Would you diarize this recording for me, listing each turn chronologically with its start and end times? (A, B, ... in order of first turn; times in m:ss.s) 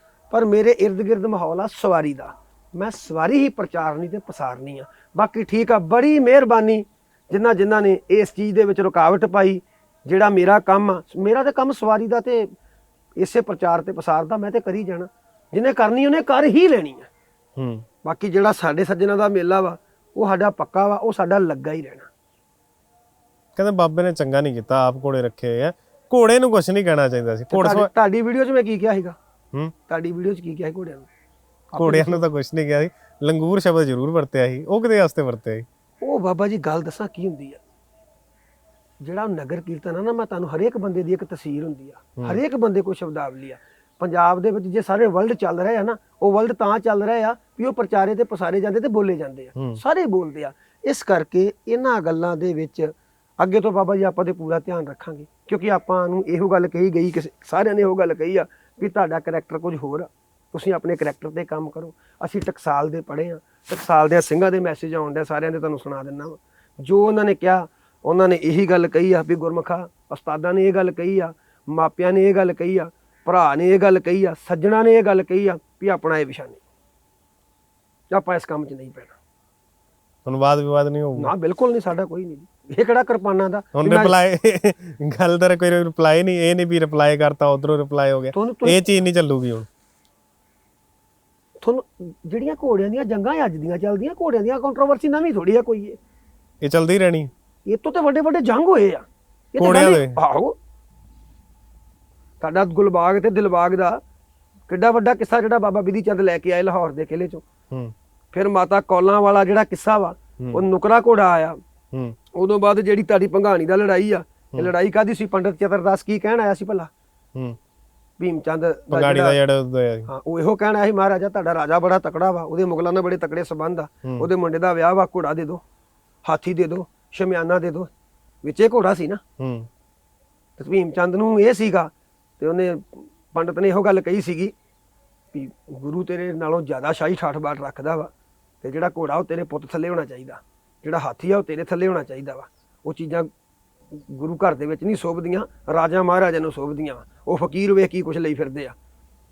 0:00.3-0:12.5 A
0:13.2-0:17.1 A
0:17.6-0:17.8 B
0:18.0-0:22.1 A
0:23.6-0:27.9 B
0:27.5-0:29.2 A
0:29.9-0:31.1 A
0:31.7-0:32.2 A
0:31.8-0:35.6 B
0:36.0-0:37.6 A
0:39.0-1:16.6 A
1:18.1-1:19.2 A
1:20.3-1:21.3 B
1:21.2-1:24.1 A
1:23.8-1:29.7 B
1:28.3-1:28.8 A
1:31.6-1:36.0 A
1:36.6-1:37.3 B
1:37.7-1:40.6 A
1:39.6-1:40.2 B
1:42.4-1:44.0 A
1:44.7-1:47.4 A
1:48.3-1:51.6 A
1:52.4-1:56.9 A
1:58.2-1:59.4 A
1:58.9-2:00.1 B
2:00.1-2:05.6 A
2:06.2-2:07.9 A
2:08.4-2:09.2 A
2:09.4-2:09.7 B
2:10.6-2:14.6 A
2:15.3-2:18.1 A
2:18.6-2:23.3 A
2:24.0-2:28.8 A